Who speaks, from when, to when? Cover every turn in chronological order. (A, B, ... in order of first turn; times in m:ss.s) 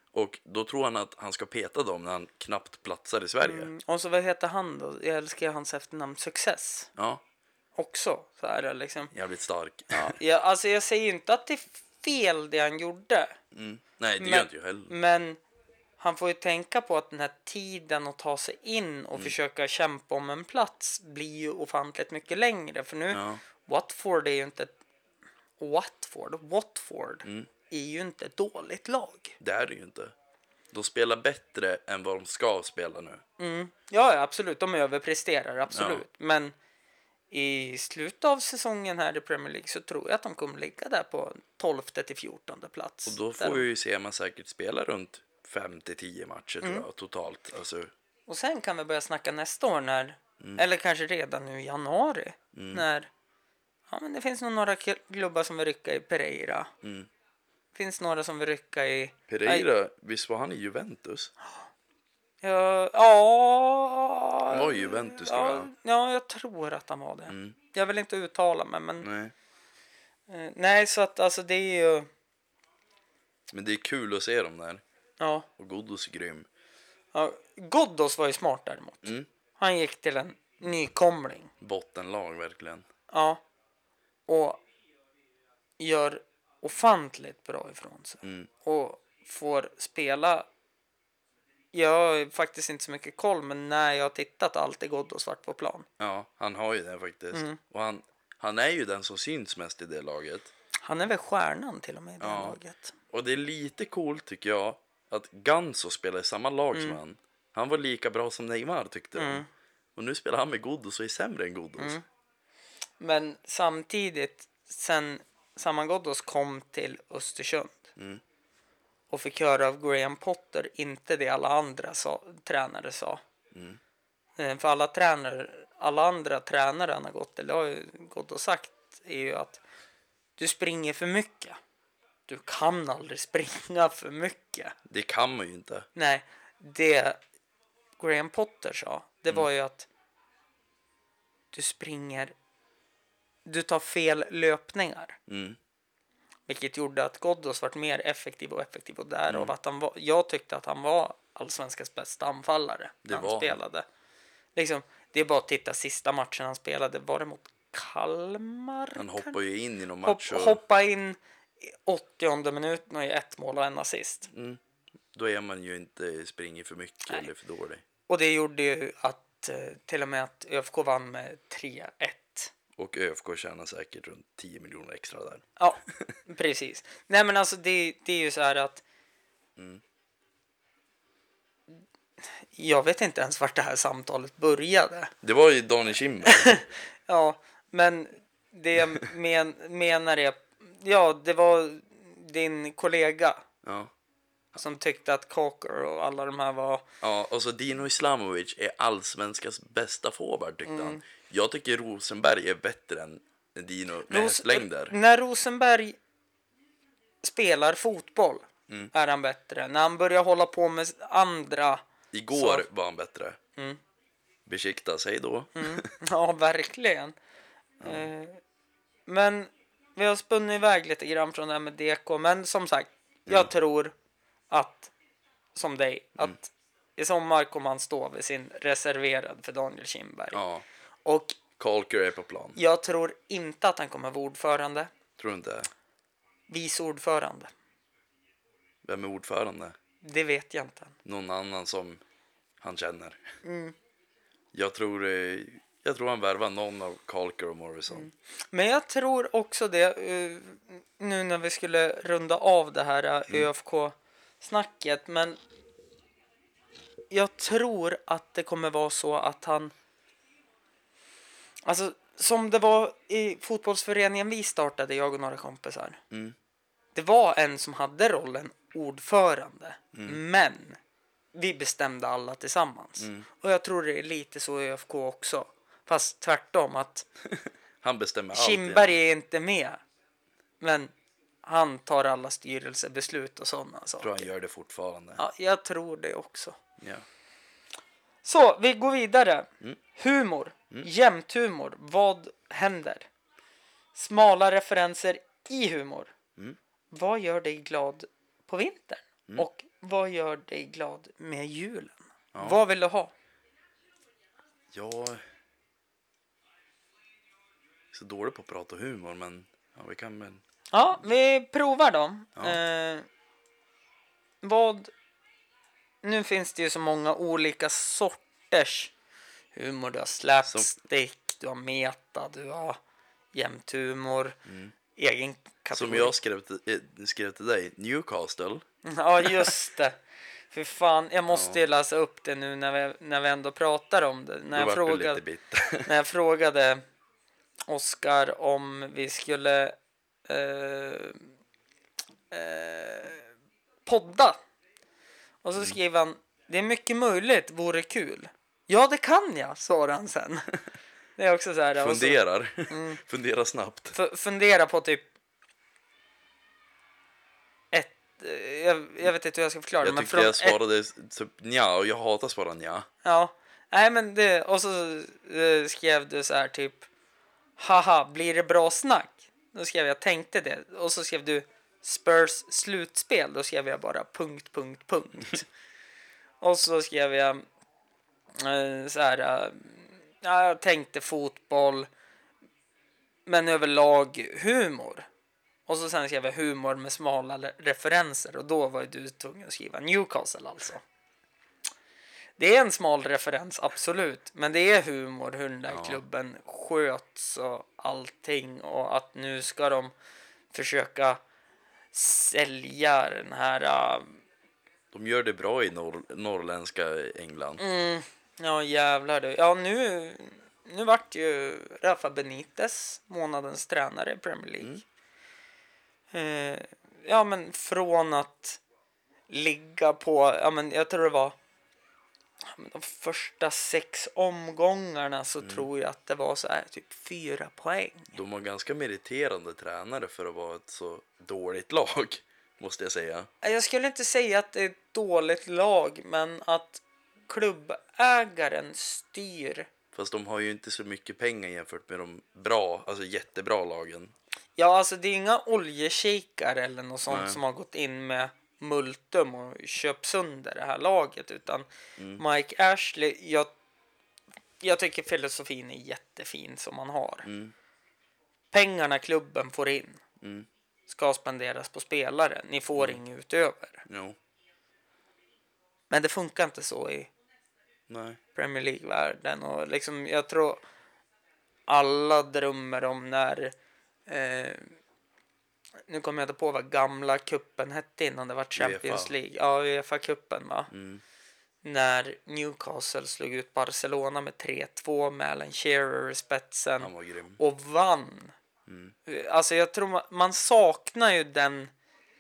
0:00.1-0:03.7 A
0:03.4-0:06.9 B
0:07.0-0:07.2 A
0:07.8-0:09.1 B
0:09.1-0:10.2 A
0:09.9-0:13.4 B
0:13.5-0:14.9 A
0:14.2-0:15.4 B
0:16.0-0:24.8 B
0:23.1-0:23.4 A
0:25.6-0:29.4 B
0:29.4-0:30.1 A
0:30.7-0:33.2 A
0:33.4-0:36.6 B
0:35.7-0:36.0 A
0:37.3-0:43.6 B
0:43.1-0:47.9 A
0:48.3-0:53.1 B
0:52.5-0:52.8 A
0:53.9-0:56.7 B
0:56.8-0:57.1 A
0:57.7-0:59.7 B
0:59.3-1:01.3 A
1:02.4-1:09.1 B
1:04.5-1:05.7 A
1:07.3-1:07.6 A
1:09.0-1:09.3 A
1:10.3-1:12.1 B
1:13.5-1:14.8 A
1:15.2-1:15.5 B
1:15.6-1:16.5 A
1:17.1-1:21.5 B
1:21.6-1:22.9 A
1:23.1-1:23.4 B
1:24.3-1:24.6 B
1:25.8-1:30.5 B
1:28.2-1:28.5 A
1:31.7-1:35.9 B
1:36.0-1:40.5 A
1:37.3-1:37.6 B
1:40.8-1:42.9 B
1:42.2-1:42.6 A
1:43.1-1:49.4 A
1:46.7-1:47.0 B
1:49.2-1:49.5 B
1:50.0-1:52.0 A
1:51.8-1:52.0 B
1:53.0-1:57.9 B
1:58.0-1:58.2 A
1:59.1-2:03.2 B
2:03.5-2:03.8 A
2:04.4-2:09.6 B
2:10.4-2:11.6 B
2:12.3-2:14.8 B
2:14.9-2:15.9 A
2:16.0-2:17.2 B
2:18.0-2:19.9 B
2:21.5-2:22.4 B
2:23.4-2:25.2 B
2:25.3-2:25.6 A
2:26.5-2:33.8 B
2:29.3-2:29.5 A
2:33.0-2:33.6 A
2:34.6-2:39.4 B
2:39.0-2:40.6 A
2:40.0-2:44.3 B
2:44.3-2:44.6 A
2:45.1-2:47.8 A
2:48.1-2:52.5 B
2:52.8-2:56.1 A
2:55.6-2:58.8 B
2:59.6-2:59.8 A
3:02.2-3:05.1 B
3:05.2-3:06.6 A
3:06.2-3:13.4 B
3:13.6-3:13.9 A
3:14.6-3:16.8 B
3:17.0-3:24.9 A
3:20.6-3:21.0 B
3:24.1-3:26.0 B
3:27.2-3:32.6 B
3:32.1-3:33.4 A
3:34.5-3:35.9 A
3:35.6-3:37.2 B
3:37.8-3:38.1 A
3:37.8-3:38.4 B
3:39.1-3:43.9 B
3:44.5-3:44.9 B
3:45.6-3:50.4 B
3:50.3-3:50.6 A
3:51.0-3:51.4 B
3:51.6-3:52.6 A
3:52.6-3:54.9 B
3:55.2-3:55.7 A
3:56.5-3:57.5 B
3:58.8-3:59.8 A
4:00.0-4:01.0 B
4:01.0-4:02.0 A
4:02.6-4:03.3 A
4:03.4-4:03.8 B
4:04.5-4:08.1 A
4:07.9-4:15.4 B
4:17.1-4:19.7 B
4:21.6-4:26.0 B
4:26.1-4:26.4 A
4:27.0-4:30.8 B
4:29.9-4:30.2 A
4:31.4-4:37.1 B
4:33.0-4:33.3 A
4:37.3-4:39.0 A
4:38.3-4:39.8 B
4:40.6-4:40.9 B
4:41.4-4:44.3 B
4:44.0-4:45.2 A
4:45.2-4:46.6 B
4:46.8-4:47.0 A
4:48.2-4:53.1 B
4:54.0-4:56.1 B
4:56.9-5:03.1 B
5:02.3-5:02.6 A
5:04.7-5:05.2 A
5:07.9-5:10.4 A
5:10.7-5:13.1 B
5:14.4-5:14.9 B
5:16.0-5:18.9 B
5:19.5-5:22.8 B
5:23.3-5:24.4 B
5:24.5-5:24.7 A
5:25.0-5:26.2 B
5:25.7-5:28.6 A
5:28.8-5:30.0 B
5:30.5-5:35.2 B
5:31.3-5:31.6 A
5:34.5-5:35.9 A
5:35.8-5:36.8 B
5:37.7-5:39.8 B
5:40.3-5:41.2 B
5:42.3-5:43.3 B
5:43.9-5:44.4 B
5:45.4-5:50.5 B
5:51.2-5:53.0 B
5:51.8-5:54.0 A
5:53.9-5:55.1 B
5:57.7-6:00.6 B
5:59.8-6:02.9 A
6:03.0-6:06.9 B
6:07.6-6:15.5 B
6:16.4-6:17.4 B
6:18.4-6:21.9 B
6:23.3-6:25.1 B
6:25.7-6:30.8 B
6:32.4-6:39.9 B
6:35.7-6:36.0 A
6:40.5-6:41.2 B
6:41.9-6:44.2 B
6:44.9-6:47.6 A
6:47.6-6:54.8 B
6:56.1-6:58.6 B
6:59.3-7:01.4 B
7:02.4-7:08.2 B
7:08.1-7:13.3 A
7:13.4-7:19.7 B
7:19.9-7:24.2 A
7:24.6-7:33.5 B
7:27.1-7:27.4 A
7:32.0-7:32.2 A
7:34.6-7:37.3 B
7:37.3-7:37.5 A
7:38.5-7:40.0 B
7:40.2-7:40.5 A
7:40.9-7:43.8 B
7:43.9-7:44.2 A
7:45.9-7:47.1 B
7:47.9-7:48.2 A
7:48.4-7:50.6 B
7:51.7-7:53.5 B
7:54.1-7:54.8 B
7:55.9-8:00.7 B
7:58.6-7:59.1 A
8:00.7-8:01.0 A
8:01.6-8:08.4 B
8:06.8-8:07.4 A
8:08.7-8:09.0 A
8:09.1-8:11.7 B